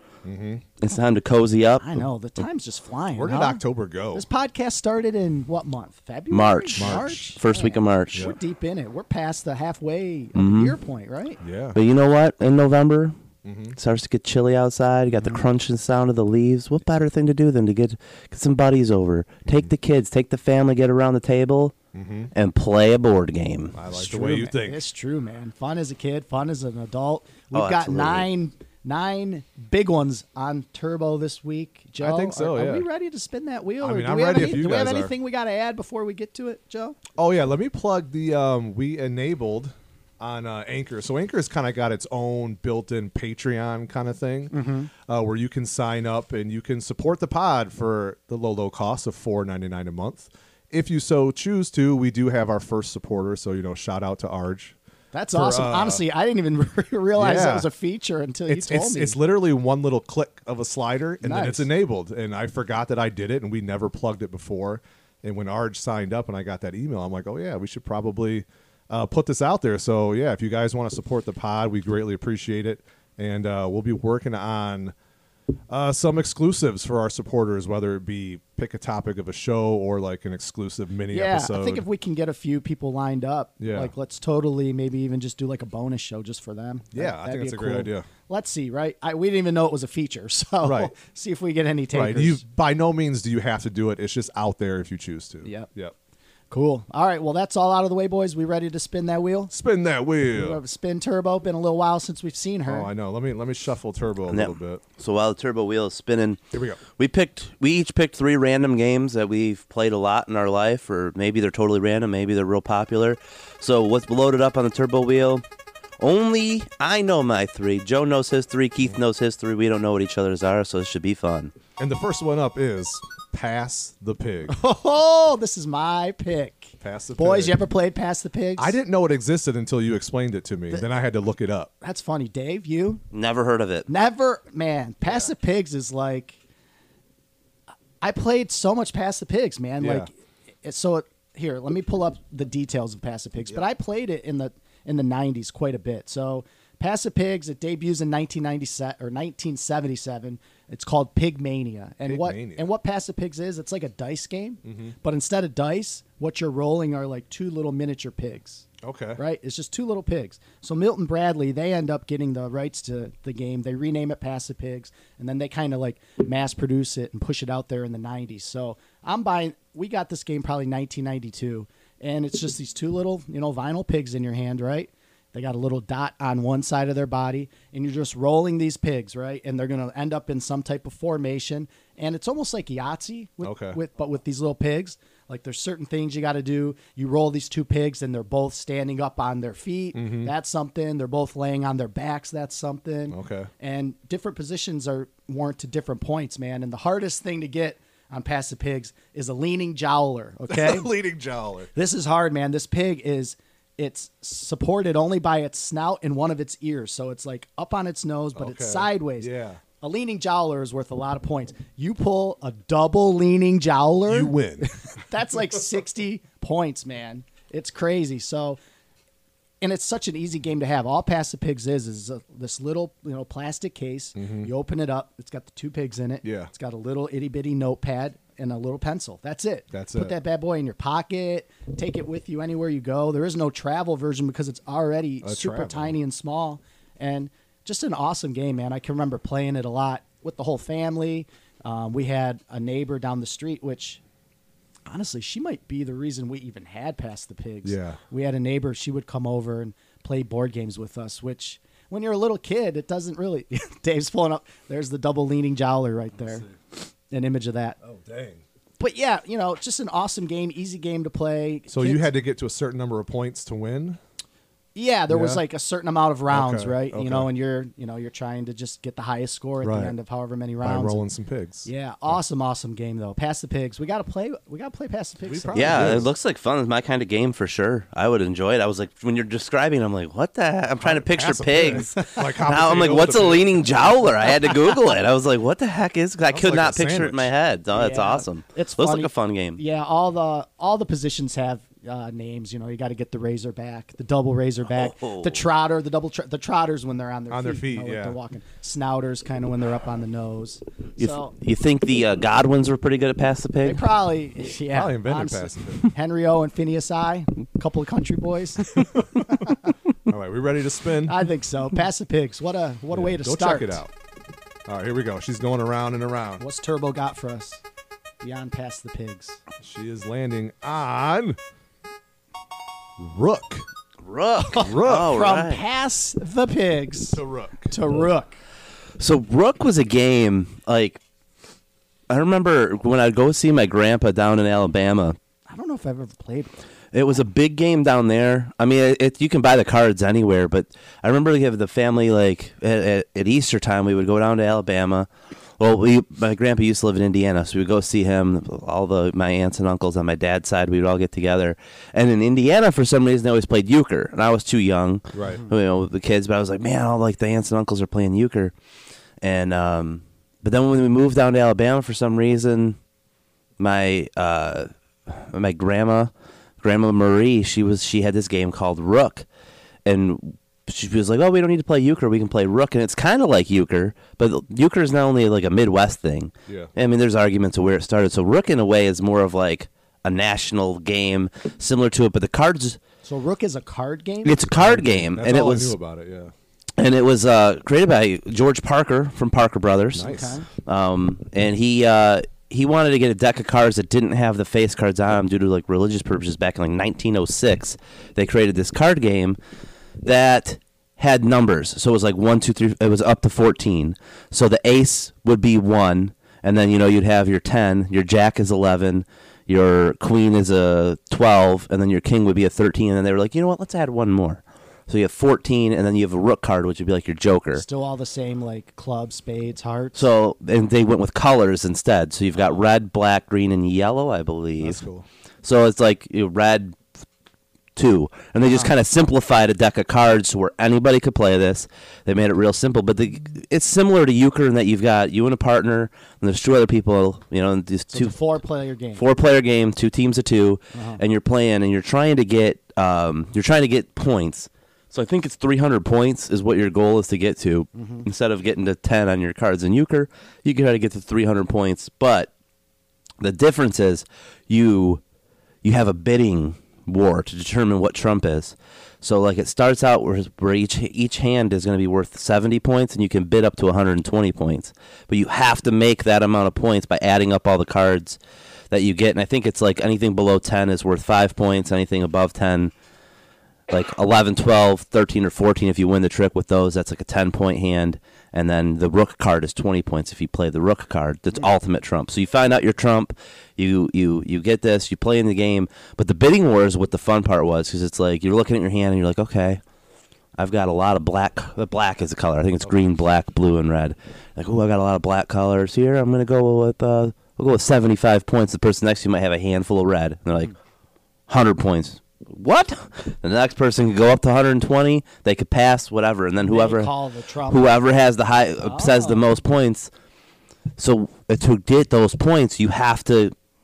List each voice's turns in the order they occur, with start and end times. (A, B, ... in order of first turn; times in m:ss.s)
0:00.2-0:00.6 A
0:00.8-0:01.9 B
0:01.8-0:11.4 C
0:03.1-0:04.2 A
0:06.3-0:08.3 B
0:06.8-0:07.2 A
0:10.4-0:10.8 B
0:11.4-0:11.8 A
0:11.7-0:13.1 B
0:13.4-0:13.8 A
0:13.8-0:21.8 B
0:15.2-0:15.4 A
0:21.9-0:22.3 A
0:22.3-0:23.8 B
0:23.7-0:24.8 A
0:23.9-0:37.0 C
0:27.5-0:28.2 B
0:32.0-0:32.9 A
0:33.8-0:35.1 A
0:37.2-0:54.8 A
0:44.5-0:44.9 C
0:55.1-0:59.2 C
0:55.3-0:56.0 A
0:57.2-0:57.7 A
0:58.5-1:14.9 A
1:01.2-1:01.7 C
1:15.7-1:21.8 A
1:21.1-1:32.4 C
1:23.6-1:23.9 A
1:26.9-1:28.1 A
1:30.6-1:30.9 A
1:31.9-1:35.9 A
1:35.4-1:35.7 C
1:36.5-1:39.5 C
1:39.5-1:40.6 A
1:40.2-1:42.9 C
1:42.7-1:44.8 A
1:44.3-1:55.4 B
1:46.5-1:46.8 A
1:56.0-2:01.5 B
2:01.8-2:04.6 A
2:04.5-2:08.7 C
2:06.8-2:07.6 A
2:08.6-2:11.7 A
2:11.8-2:13.0 C
2:13.1-2:13.9 B
2:13.9-2:16.4 C
2:15.0-2:15.3 A
2:18.0-2:20.1 C
2:19.8-2:20.1 A
2:20.6-2:38.6 C
2:32.0-2:32.7 A
2:34.6-2:34.9 A
2:38.8-2:39.2 A
2:39.2-3:20.9 C
3:03.4-3:03.8 A
3:09.9-3:10.3 A
3:13.1-3:13.5 A
3:20.5-3:21.7 A
3:21.7-3:38.6 C
3:28.3-3:29.6 A
3:34.1-3:34.7 A
3:39.6-4:04.0 C
3:44.2-3:44.5 A
3:46.2-3:46.5 A
3:49.7-3:50.1 A
3:55.2-3:56.0 A
4:04.9-4:16.5 C
4:07.6-4:08.0 A
4:16.2-4:16.6 A
4:17.1-4:17.8 C
4:17.8-4:18.4 A
4:18.8-4:22.1 C
4:21.7-4:24.0 A
4:24.7-4:31.0 C
4:25.1-4:25.4 A
4:26.3-4:27.3 A
4:29.6-4:29.9 A
4:30.6-4:31.7 A
4:31.6-4:36.1 C
4:35.2-4:36.1 A
4:35.5-4:49.6 B
4:40.8-4:43.8 A
4:46.3-4:47.3 A
4:47.7-5:01.3 C
4:54.7-4:55.4 B
4:57.3-4:58.2 A
5:01.0-5:03.9 B
5:03.6-5:09.5 C
5:04.7-5:05.9 A
5:08.7-5:09.5 A
5:10.0-5:11.2 A
5:11.0-5:13.8 C
5:12.9-5:13.9 A
5:14.6-5:16.4 A
5:16.4-5:17.6 C
5:18.2-5:19.4 C
5:19.6-5:21.4 A
5:23.0-5:23.6 A
5:24.0-5:25.6 B
5:24.5-5:28.4 C
5:24.6-5:25.2 A
5:27.1-5:27.7 A
5:29.0-5:31.0 B
5:32.1-5:35.2 B
5:35.5-5:36.6 C
5:36.9-5:45.1 B
5:45.6-5:58.5 B
5:55.1-5:55.4 A
5:59.2-6:02.8 B
6:03.6-6:06.1 B
6:06.6-6:09.2 B
6:09.8-6:22.8 B
6:16.5-6:16.7 A
6:23.0-6:24.9 C
6:24.2-6:25.7 B
6:24.5-6:26.3 A
6:26.8-6:39.4 B
6:29.9-6:30.4 A
6:30.0-6:30.5 C
6:40.0-6:57.6 B
6:57.5-7:00.1 C
7:00.0-7:04.8 B
7:04.6-7:05.0 A
7:05.4-7:06.8 B
7:07.8-7:18.4 B
7:17.9-7:19.0 C
7:18.9-7:32.3 B
7:20.7-7:21.0 C
7:27.7-7:28.1 C
7:33.2-7:35.0 B
7:35.6-7:48.2 B
7:48.7-7:52.7 B
7:53.7-8:09.6 B
8:10.4-8:20.5 B
8:21.3-8:26.9 B
8:26.4-8:27.8 C
8:27.5-8:29.9 B
8:28.6-8:29.3 C
8:30.8-8:33.3 B